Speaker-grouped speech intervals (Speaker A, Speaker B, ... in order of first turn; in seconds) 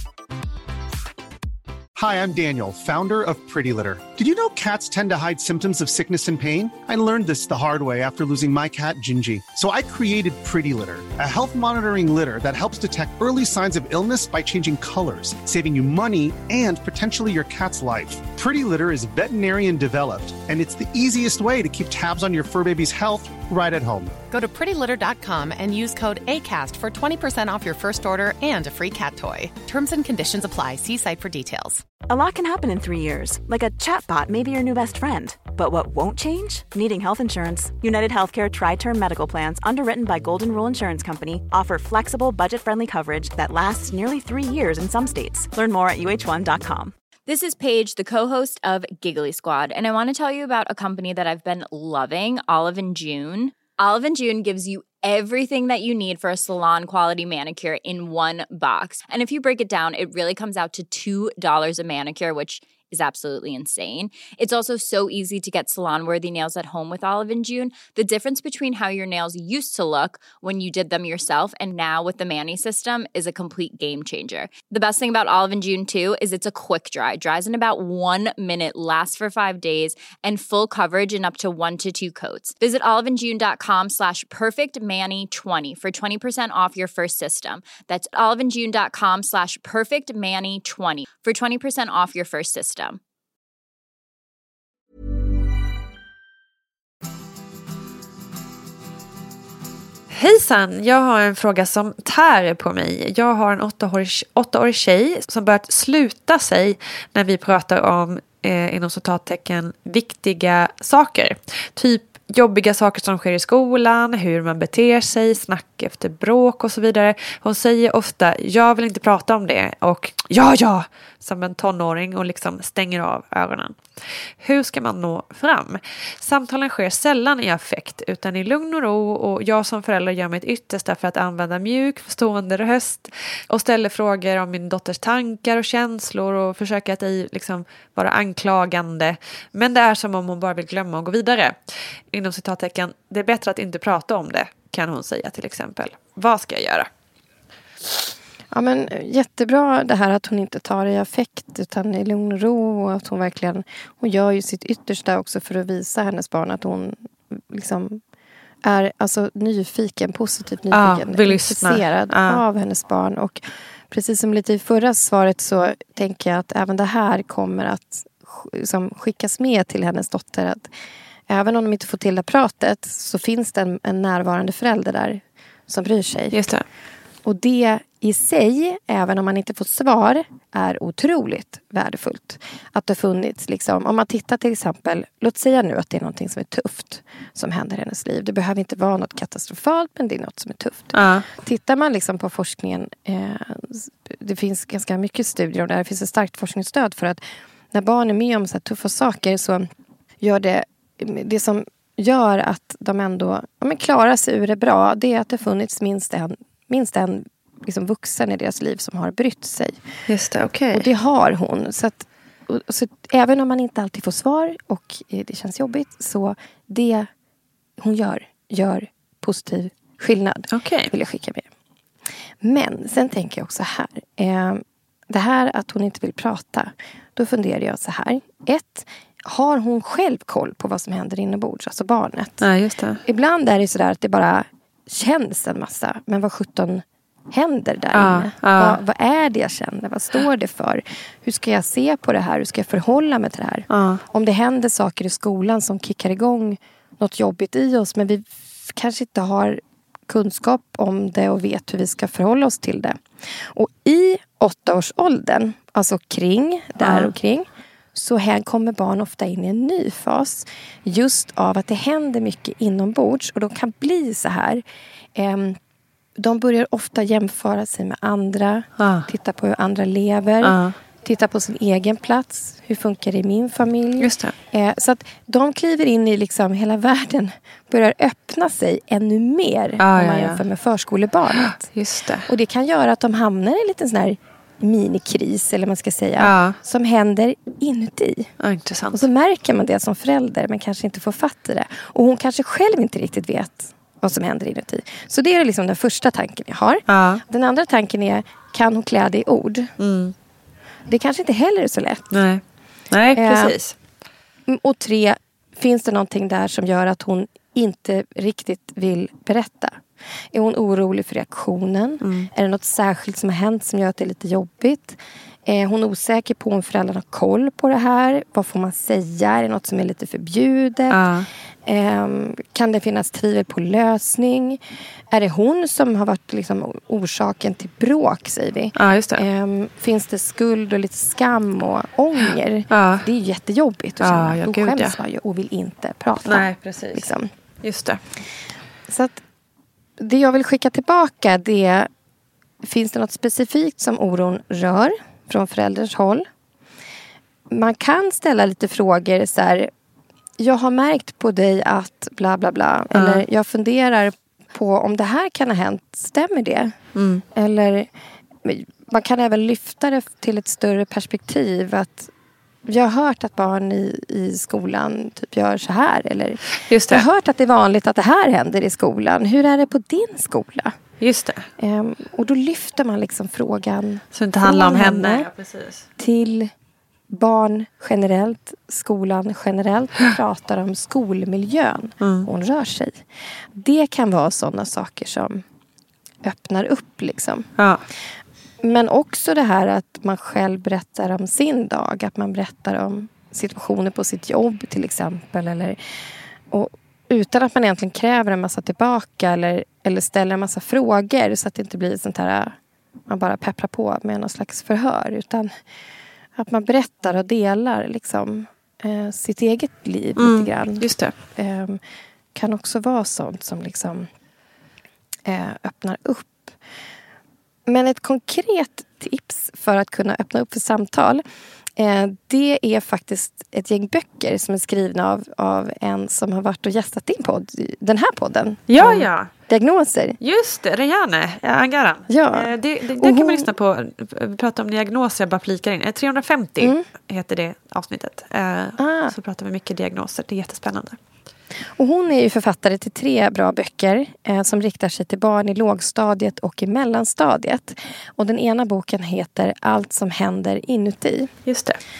Speaker A: 2.0-24.2
Speaker B: 24.3-31.9
Speaker C: 32.0-46.9
Speaker D: 47.3-93.0
Speaker E: 100.1-123.8, 124.4-141.6, 142.1-146.9, 160.7-162.4, 176.3-176.7, 190.9-191.3, 210.1-210.9, 220.5-220.9, 232.4-233.0, 237.9-238.8, 243.7-244.0, 256.8-257.1, 268.8-269.1, 270.4-270.8, 274.0-274.3, 279.8-280.4, 281.3-282.3, 286.2-286.6, 288.4-289.1, 296.9-297.2, 299.8-300.1, 302.1-303.8, 312.0-312.3, 320.9-321.3, 328.8-329.2, 332.7-333.1, 334.0-335.0, 336.2-337.1, 337.6-338.0, 352.9-353.2, 356.9-357.2, 366.6-367.1, 371.0-371.5, 374.1-375.9, 382.0-382.3, 387.6-387.8, 410.2-411.1, 428.7-429.3, 430.2-441.0, 451.5-451.8
Speaker F: 148.5-158.0, 158.6-170.7, 171.3-176.4, 177.2-199.7, 200.2-209.8, 210.7-217.1, 217.8-221.5, 222.4-232.4, 233.0-264.6, 265.1-265.6, 266.2-281.7, 282.2-288.3, 288.9-299.7, 300.9-302.1, 303.1-303.6, 304.5-309.8, 310.3-321.0, 321.6-324.6, 325.1-337.3, 338.9-339.2, 340.0-341.9, 342.6-346.3, 347.5-349.7, 350.4-356.8, 357.3-357.9, 358.4-362.1, 362.7-370.8, 371.6-375.3, 376.0-376.5, 377.1-385.4, 386.2-387.5, 388.6-395.8, 396.5-402.6, 403.1-405.5, 406.4-411.8, 412.4-414.1, 415.3-416.5, 417.7-421.2, 421.8-430.2, 432.1-433.5, 438.8-439.1, 441.8-451.3